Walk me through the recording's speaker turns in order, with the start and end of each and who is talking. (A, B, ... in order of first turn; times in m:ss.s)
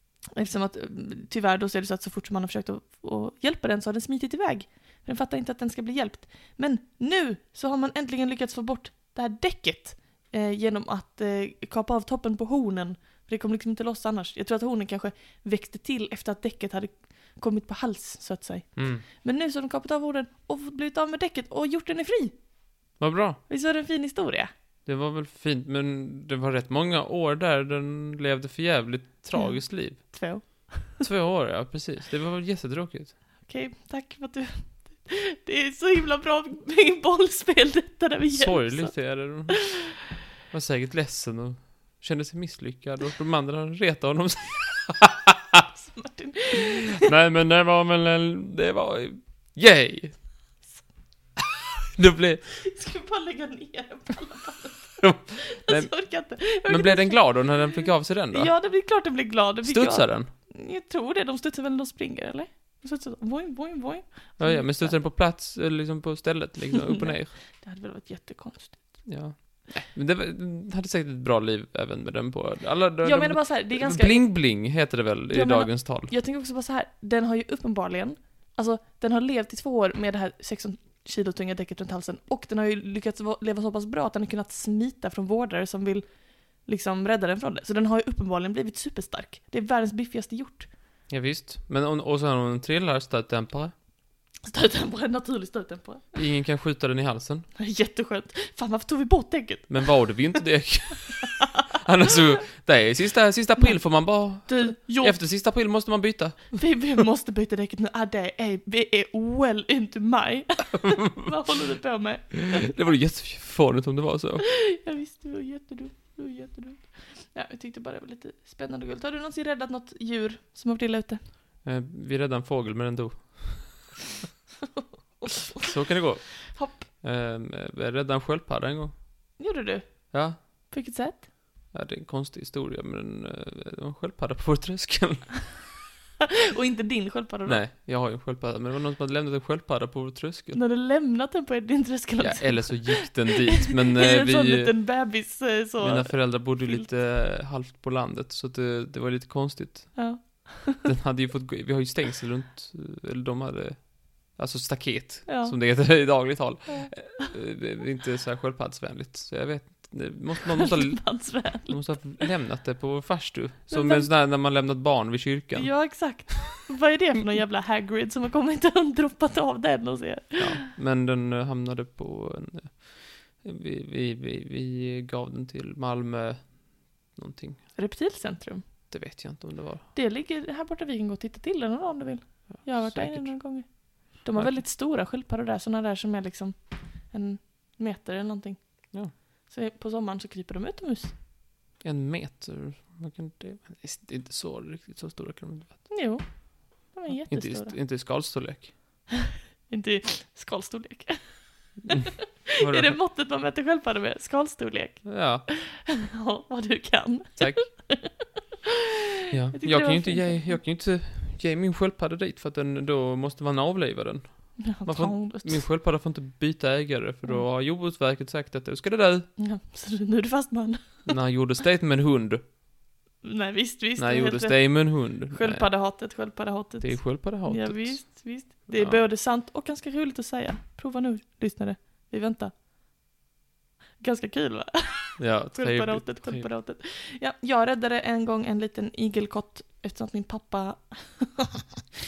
0:00.4-0:22.5 A
0:18.8-0:19.0 B
0:23.0-0:23.4 B
0:23.5-0:24.5 A
0:24.8-0:33.2 B
0:29.3-0:31.0 A
0:33.4-0:39.6 A
0:38.3-0:45.6 B
0:45.7-0:47.1 A
0:47.0-0:50.3 B
0:51.9-0:52.6 B
0:52.6-1:05.0 A
0:55.0-0:58.5 B
0:59.6-1:00.3 B
1:04.4-1:07.3 B
1:06.7-1:09.1 A
1:09.0-1:16.1 B
1:13.0-1:30.7 A
1:31.1-1:33.7 B
1:34.4-1:36.1 A
1:36.1-1:37.4 B
1:37.6-1:40.4 A
1:39.7-1:46.8 B
1:43.6-1:45.2 A
1:46.5-1:52.7 A
1:52.6-1:54.4 B
1:54.5-2:01.2 A
2:01.6-2:03.9 B
2:05.6-2:09.0 B
2:06.5-2:06.8 A
2:09.4-2:11.3 A
2:10.1-2:10.7 B
2:11.7-2:15.5 B
2:16.6-2:17.6 A
2:17.4-2:20.6 B
2:20.5-2:26.9 A
2:22.2-2:25.0 B
2:25.8-2:46.3 B
2:29.9-2:30.9 A
2:35.2-2:37.3 A
2:40.5-2:42.3 A
2:43.7-2:44.1 A
2:45.5-2:50.6 A
2:50.4-2:57.7 B
2:57.7-2:58.9 A
2:58.9-2:59.9 B
2:59.9-3:11.2 A
3:02.5-3:04.5 B
3:11.8-3:15.9 B
3:15.9-3:17.8 A
3:17.1-3:18.7 B
3:19.7-3:28.2 A
3:22.6-3:23.0 B
3:25.0-3:25.4 B
3:27.4-3:27.8 B
3:29.3-3:39.3 B
3:29.5-3:30.6 A
3:34.6-3:35.6 A
3:39.4-3:41.0 A
3:41.0-3:42.4 B
3:43.2-3:52.5 A
3:44.0-3:46.2 B
3:46.8-3:49.0 B
3:54.0-4:01.8 A
3:55.2-3:56.5 B